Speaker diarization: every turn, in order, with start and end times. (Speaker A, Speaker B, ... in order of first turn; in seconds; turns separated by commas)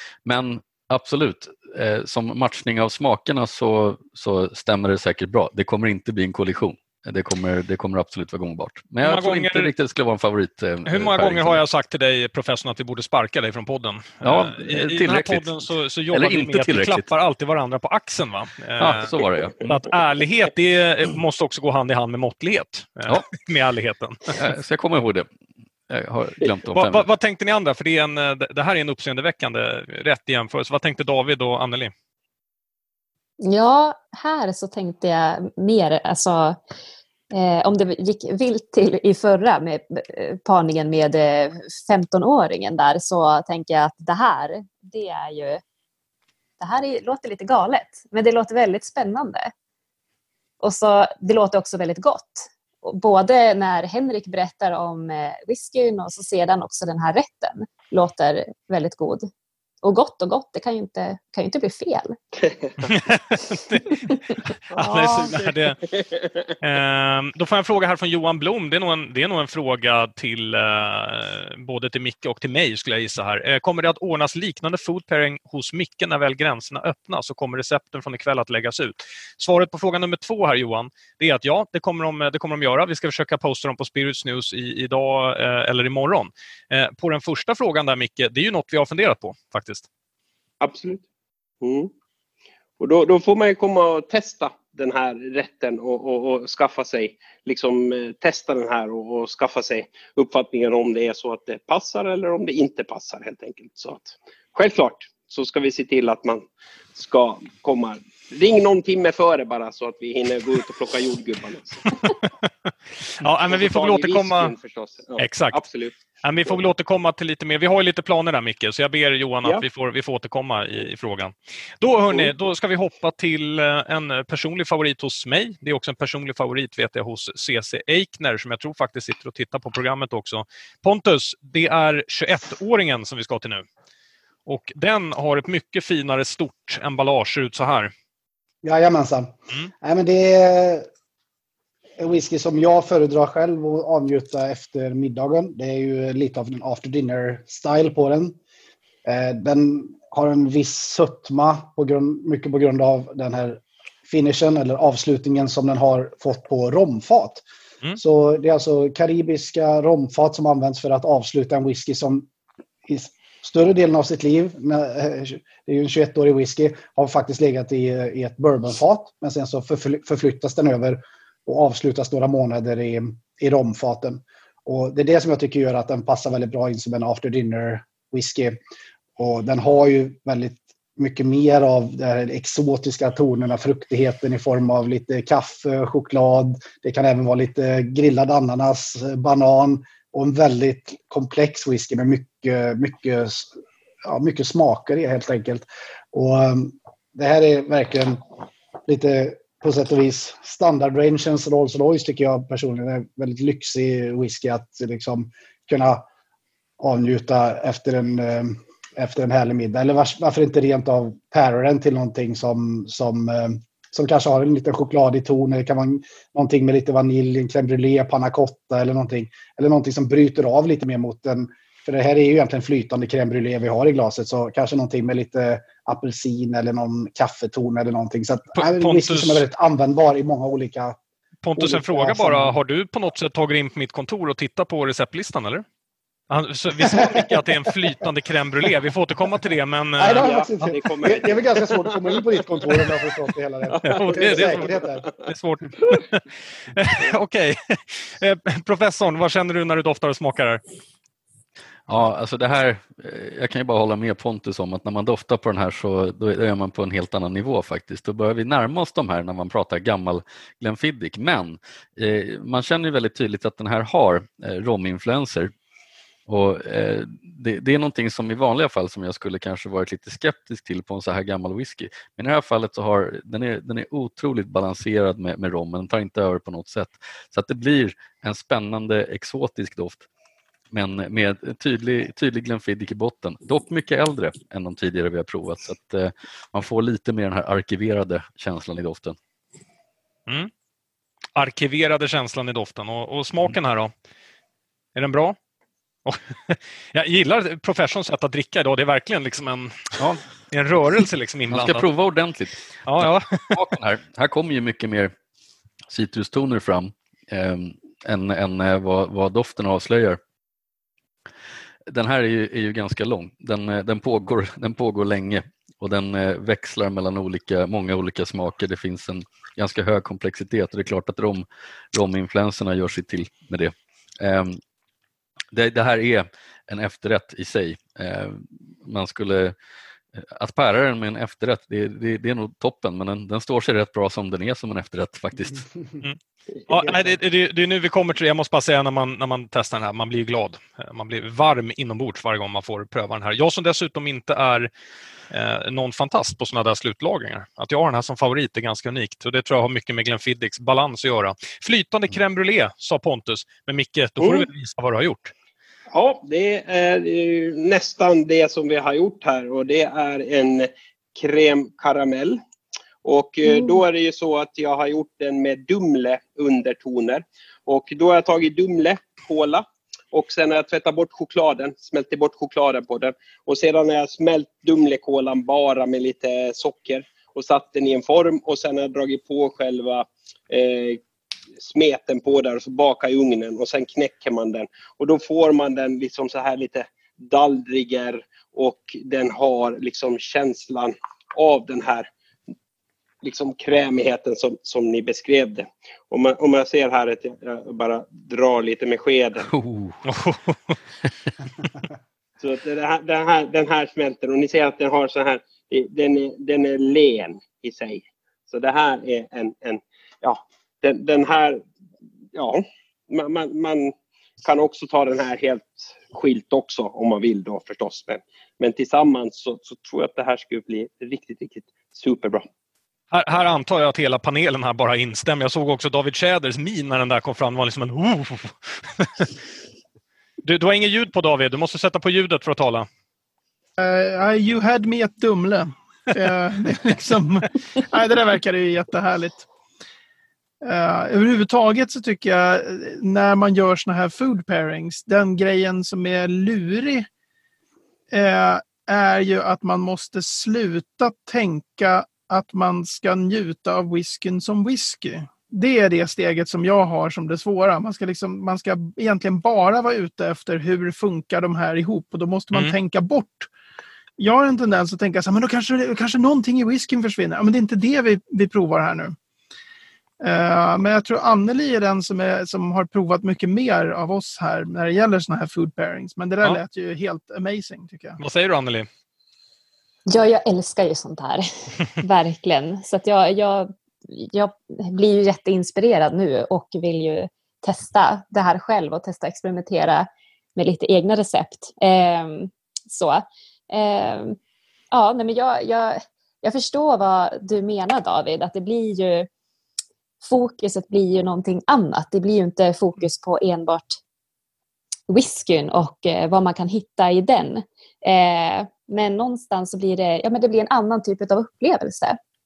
Speaker A: 0.2-11.6, Speaker B: 9.0-9.7, Speaker B: 10.9-24.3, Speaker A: 14.2-15.6, Speaker A: 16.1-17.1, Speaker A: 18.8-19.9, Speaker A: 24.4-25.3, Speaker A: 25.9-27.1, Speaker B: 26.7-31.9, Speaker C: 33.4-36.6, Speaker C: 37.3-45.6, Speaker C: 46.6-49.5, Speaker C: 50.6-59.3, Speaker C: 59.8-62.2, Speaker D: 62.4-62.9, Speaker B: 62.8-64.1, Speaker B: 64.7-65.8, Speaker C: 64.8-65.3, Speaker D: 64.8-66.5, Speaker B: 66.6-89.8, Speaker D: 90.6-91.0, Speaker D: 91.6-91.9, Speaker D: 92.8-112.0, Speaker B: 112.0-112.5, Speaker B: 113.2-114.5, Speaker D: 113.5-116.0, Speaker B: 115.2-115.6, Speaker B: 116.2-133.7, Speaker B: 134.5-137.9, Speaker E: 138.6-140.9, Speaker E: 142.0-148.4, Speaker E: 149.1-157.4, Speaker E: 158.0-162.3, Speaker E: 162.9-178.6, Speaker E: 179.2-193.5, Speaker E: 194.1-198.2, Speaker E: 198.9-206.1, Speaker E: 206.8-231.0, Speaker B: 228.5-229.4, Speaker B: 231.4-235.7, Speaker E: 231.6-232.6, Speaker B: 236.3-240.2, Speaker E: 236.9-237.2, Speaker E: 240.0-245.1, Speaker D: 240.1-242.9, Speaker D: 243.7-245.2, Speaker B: 243.8-246.2, Speaker B: 246.7-250.6, Speaker A: 251.9-265.5, Speaker A: 266.3-280.1, Speaker A: 280.7-289.2, Speaker B: 291.4-293.9, Speaker B: 294.9-295.4, Speaker B: 296.1-299.9, Speaker A: 300.0-300.2, Speaker B: 300.5-301.9, Speaker A: 301.5-305.1, Speaker B: 302.9-303.6, Speaker A: 305.9-310.2, Speaker A: 311.9-324.6, Speaker A: 325.5-329.6, Speaker A: 330.2-335.7, Speaker B: 336.0-344.7, Speaker B: 345.3-355.3, Speaker D: 354.2-354.5, Speaker D: 355.9-362.4, Speaker D: 363.0-381.0, Speaker C: 363.5-363.8, Speaker D: 381.6-392.1, Speaker D: 393.2-399.5, Speaker A: 399.5-400.0, Speaker B: 400.1-400.6, Speaker D: 402.4-411.6, Speaker D: 412.3-422.5, Speaker B: 423.1-429.3, Speaker B: 430.4-432.9, Speaker F: 433.8-439.5, Speaker F: 440.6-447.1, Speaker F: 448.1-463.5, Speaker F: 464.2-469.2, Speaker F: 470.2-478.2, Speaker B: 478.2-478.9, Speaker C: 480.1-481.4, Speaker C: 482.0-494.4, Speaker C: 494.9-499.3, Speaker C: 500.2-504.0, Speaker C: 505.1-512.2